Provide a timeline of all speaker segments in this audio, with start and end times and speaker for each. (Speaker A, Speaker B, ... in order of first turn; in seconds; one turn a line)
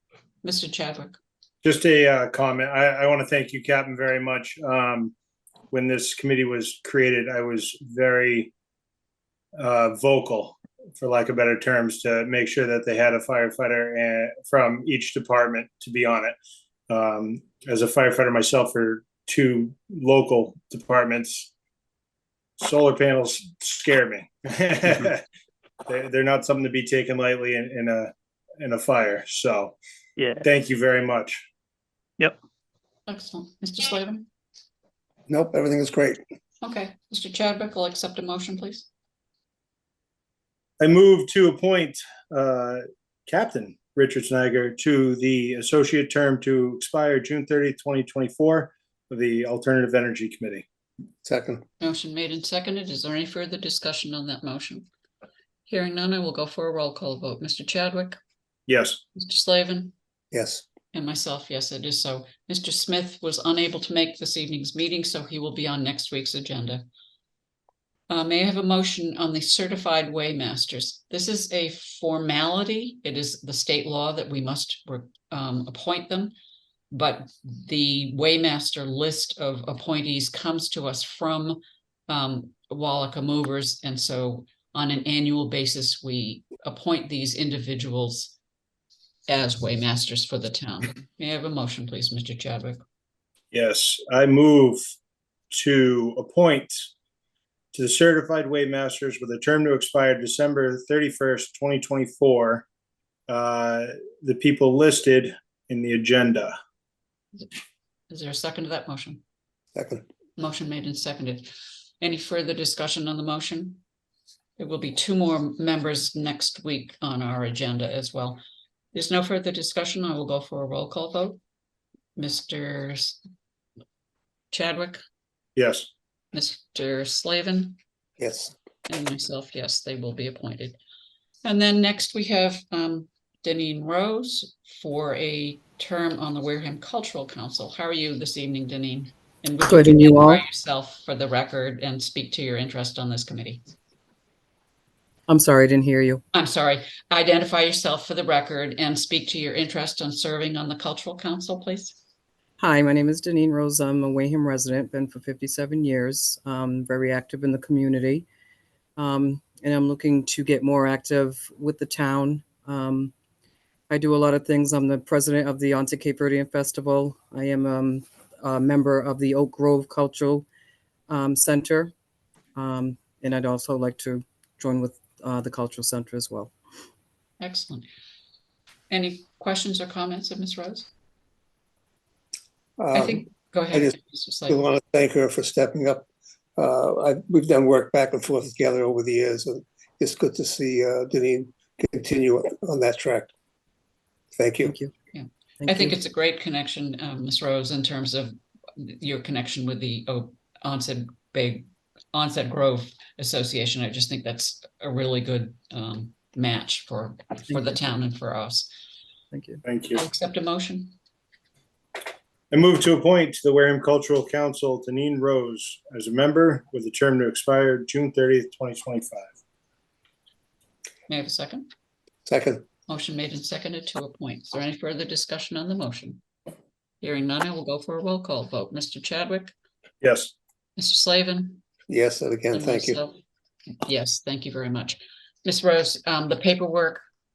Speaker A: 0.4-1.2
Speaker B: 1.6-5.1
Speaker B: 5.7-8.5
Speaker B: 9.6-16.3
Speaker B: 16.9-21.5
Speaker B: 22.6-25.2
Speaker B: 25.9-29.7
Speaker B: 30.4-31.4
Speaker A: 33.1-34.2
Speaker C: 35.3-36.2
Speaker A: 36.6-38.9
Speaker B: 40.8-50.6
Speaker C: 51.2-51.6
Speaker A: 51.8-54.8
Speaker A: 55.7-58.2
Speaker B: 58.7-59.0
Speaker A: 59.1-59.9
Speaker C: 60.3-60.6
Speaker A: 60.9-66.8
Speaker A: 68.1-76.3
Speaker A: 76.9-88.3
Speaker A: 89.3-92.8
Speaker B: 93.5-94.8
Speaker B: 95.5-96.9
Speaker B: 97.7-102.6
Speaker B: 103.3-106.5
Speaker A: 108.1-109.2
Speaker C: 109.7-110.0
Speaker A: 110.4-111.5
Speaker A: 112.0-113.8
Speaker A: 114.6-118.4
Speaker A: 118.9-121.4
Speaker A: 122.2-123.2
Speaker A: 124.5-125.0
Speaker B: 125.5-125.9
Speaker A: 126.3-127.8
Speaker C: 128.2-128.5
Speaker A: 128.9-130.8
Speaker A: 131.4-143.6
Speaker D: 139.6-140.4
Speaker D: 145.3-146.2
Speaker A: 146.3-152.0
Speaker D: 152.6-158.2
Speaker D: 158.9-163.1
Speaker D: 163.9-170.4
Speaker D: 171.1-171.9
Speaker D: 172.5-176.5
Speaker A: 177.4-177.9
Speaker A: 178.9-180.9
Speaker C: 182.8-183.9
Speaker A: 182.9-184.6
Speaker C: 184.5-193.3
Speaker C: 194.3-194.7
Speaker D: 194.6-194.9
Speaker A: 195.1-208.7
Speaker D: 195.6-195.9
Speaker D: 209.3-209.6
Speaker B: 209.6-210.0
Speaker A: 209.9-210.9
Speaker B: 212.5-219.3
Speaker A: 221.1-221.7
Speaker C: 222.2-222.6
Speaker A: 222.9-226.2
Speaker A: 227.0-229.5
Speaker B: 230.0-230.3
Speaker A: 230.8-231.6
Speaker C: 231.9-233.0
Speaker A: 232.5-233.2
Speaker A: 233.8-237.0